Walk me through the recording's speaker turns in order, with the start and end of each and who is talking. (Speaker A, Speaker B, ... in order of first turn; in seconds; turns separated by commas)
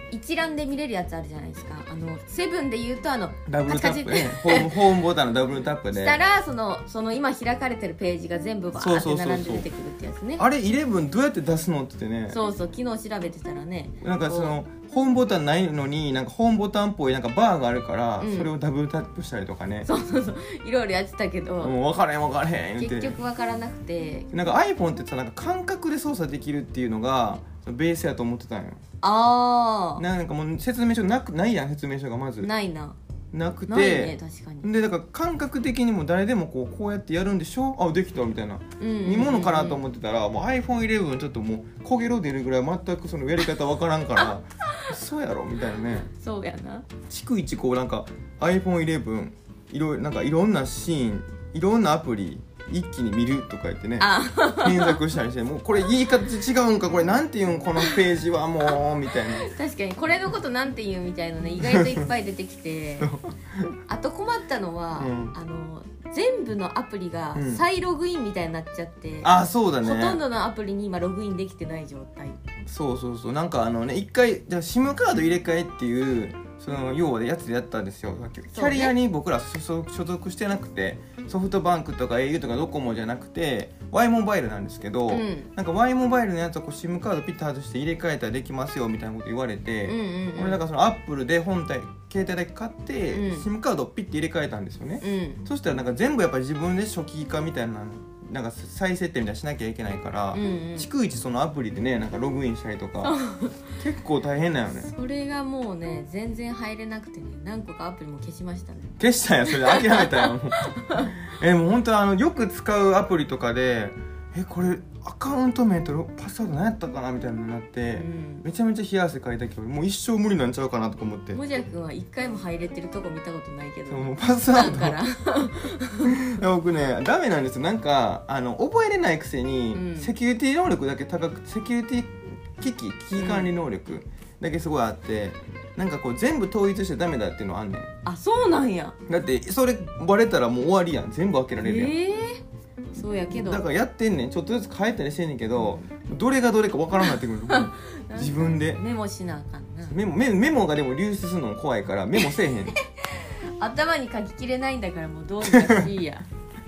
Speaker A: 0.1-4.8, Speaker B: 3.5-6.2, Speaker A: 5.9-10.4, Speaker B: 8.8-9.7, Speaker B: 10.4-12.4, Speaker A: 12.3-14.6, Speaker B: 14.0-19.9, Speaker A: 18.2-18.5, Speaker A: 19.8-21.7, Speaker B: 21.6-23.2, Speaker A: 22.8-24.3, Speaker B: 24.3-28.8, Speaker A: 29.0-30.0, Speaker B: 30.0-32.5, Speaker A: 32.4-33.0, Speaker B: 33.3-46.1, Speaker A: 33.7-34.7, Speaker A: 38.8-39.8, Speaker A: 44.2-44.8, Speaker A: 46.1-46.9, Speaker B: 47.1-59.4, Speaker A: 54.0-55.0, Speaker A: 57.8-58.0, Speaker A: 58.6-63.1, Speaker B: 61.6-62.1, Speaker B: 63.0-63.7, Speaker A: 63.9-72.4, Speaker B: 65.0-65.3, Speaker B: 67.3-67.6, Speaker B: 69.2-70.2, Speaker B: 72.7-103.2, Speaker A: 78.5-78.9, Speaker A: 85.1-85.5, Speaker A: 89.8-90.6, Speaker A: 93.1-93.5, Speaker A: 95.0-95.5, Speaker A: 100.3-100.9, Speaker A: 103.0-103.6, Speaker B: 103.8-104.9, Speaker A: 104.7-111.2, Speaker B: 109.0-121.4, Speaker A: 117.9-118.5, Speaker A: 121.3-126.4, Speaker B: 123.9-125.0, Speaker B: 126.0-137.9, Speaker A: 129.7-130.1, Speaker A: 133.1-133.5, Speaker A: 138.0-138.9, Speaker B: 139.1-141.9, Speaker A: 141.6-142.4, Speaker A: 142.9-143.6, Speaker B: 143.0-148.8, Speaker A: 145.6-145.9, Speaker A: 147.0-150.0, Speaker B: 149.9-152.8, Speaker A: 152.2-156.2, Speaker B: 155.5-155.9